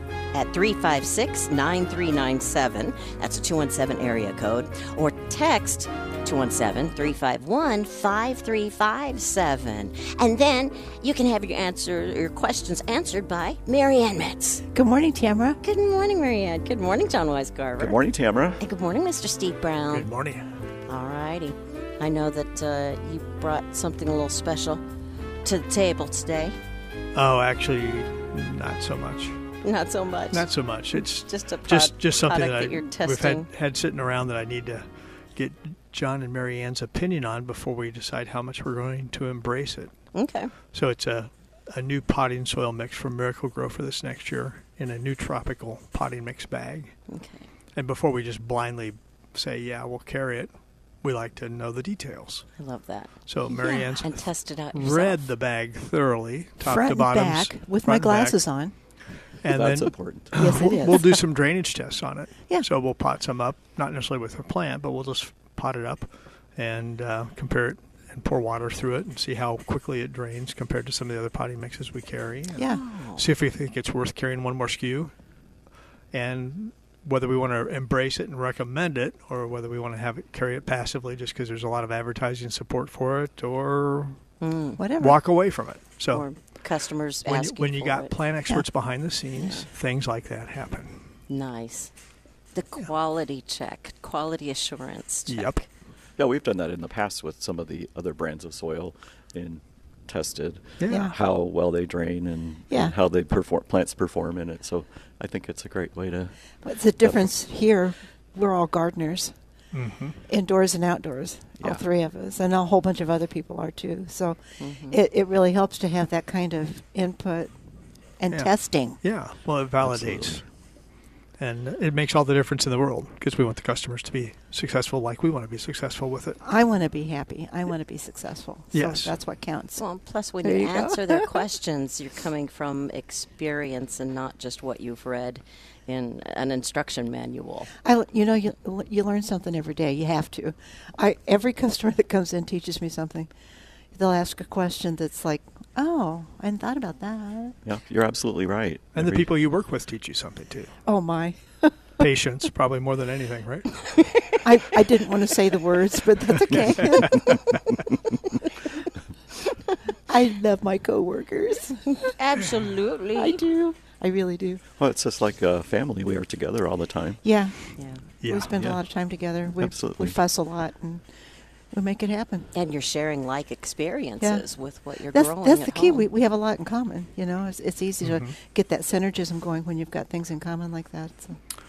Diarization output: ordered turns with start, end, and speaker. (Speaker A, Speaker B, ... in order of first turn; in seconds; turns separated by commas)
Speaker A: 0.3-14.6, Speaker B: 14.7-15.6, Speaker A: 15.6-18.0, Speaker C: 17.8-18.6, Speaker A: 18.6-20.1, Speaker D: 19.9-20.5, Speaker A: 20.9-24.8, Speaker A: 25.4-26.6, Speaker D: 27.1-29.4, Speaker A: 29.6-33.5, Speaker D: 30.3-39.9, Speaker A: 40.1-40.5, Speaker D: 40.7-47.0, Speaker A: 47.1-47.5, Speaker D: 47.8-50.5, Speaker D: 51.0-52.5, Speaker A: 52.6-55.3, Speaker D: 53.3-58.4, Speaker B: 56.6-58.7, Speaker D: 59.4-75.1, Speaker C: 59.5-60.5, Speaker B: 60.3-61.2, Speaker B: 72.5-72.8, Speaker A: 72.6-73.2, Speaker D: 76.1-84.2, Speaker A: 84.4-84.8, Speaker B: 84.8-85.2, Speaker D: 85.0-86.3, Speaker A: 86.1-88.1, Speaker D: 87.2-91.0, Speaker A: 89.4-89.7, Speaker A: 91.3-91.9, Speaker A: 92.5-95.6, Speaker D: 95.3-95.6, Speaker C: 96.2-106.3, Speaker D: 100.8-101.1, Speaker B: 106.6-109.3, Speaker D: 109.7-110.2, Speaker B: 110.3-117.5, Speaker A: 114.6-115.0, Speaker B: 118.2-119.0, Speaker D: 118.3-120.5, Speaker C: 119.8-120.4, Speaker D: 121.4-126.4, Speaker B: 126.4-129.8, Speaker D: 128.7-129.1, Speaker A: 129.8-137.7, Speaker B: 130.4-131.3, Speaker B: 137.8-143.3, Speaker B: 143.9-147.6, Speaker C: 147.6-149.3, Speaker D: 148.9-150.7, Speaker B: 150.8-151.7, Speaker D: 152.0-153.8, Speaker A: 153.9-154.3, Speaker B: 154.4-157.3, Speaker C: 157.3-157.6, Speaker B: 160.1-162.1, Speaker A: 162.0-163.4, Speaker B: 163.1-164.6, Speaker C: 164.8-167.2, Speaker B: 167.2-171.0, Speaker A: 167.8-168.0, Speaker D: 168.2-168.7, Speaker C: 168.5-168.8, Speaker C: 169.6-170.2, Speaker B: 171.7-172.5, Speaker A: 172.5-176.1, Speaker B: 175.1-181.4, Speaker D: 178.0-178.3